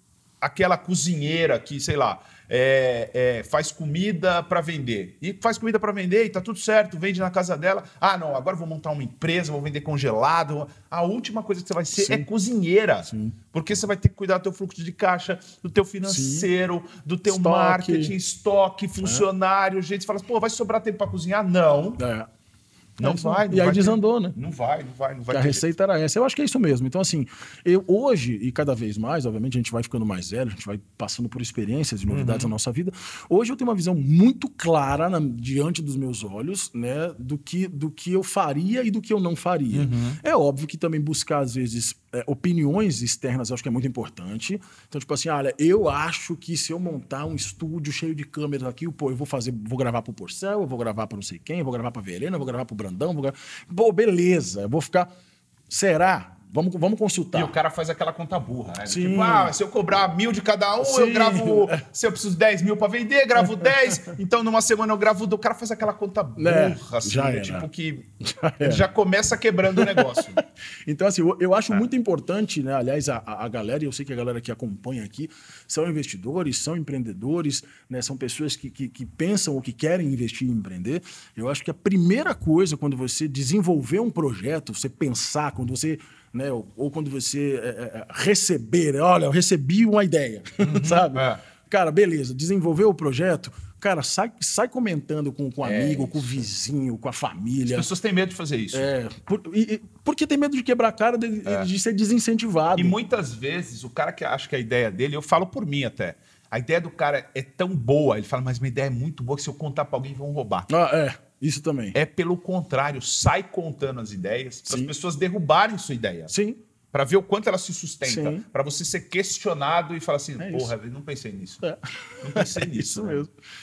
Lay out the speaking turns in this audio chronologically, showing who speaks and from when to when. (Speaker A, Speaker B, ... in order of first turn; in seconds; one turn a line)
Speaker A: 0.4-22.0
Speaker B: 12.0-12.2
Speaker B: 13.1-13.4
Speaker B: 16.1-16.5
Speaker B: 17.3-18.1
Speaker B: 22.0-22.3
Speaker B: 23.0-24.4
Speaker A: 23.0-25.7
Speaker B: 25.3-55.1
Speaker A: 32.1-32.5
Speaker A: 39.7-40.2
Speaker B: 55.7-57.5
Speaker A: 57.3-68.1
Speaker B: 58.9-59.5
Speaker B: 60.8-61.8
Speaker B: 63.4-63.7
Speaker B: 66.4-67.7
Speaker B: 68.2-68.8
Speaker A: 68.6-70.4
Speaker B: 69.8-70.2
Speaker B: 70.9-97.9
Speaker A: 90.6-91.4
Speaker A: 95.6-96.4
Speaker A: 97.7-98.9
Speaker B: 98.7-103.0
Speaker A: 102.8-110.7
Speaker B: 110.7-112.0
Speaker A: 111.9-116.3
Speaker B: 114.7-114.9
Speaker B: 116.3-116.6
Speaker A: 116.9-121.7
Speaker B: 118.0-118.4
Speaker B: 120.4-120.7
Speaker B: 121.6-123.3
Speaker A: 122.2-123.2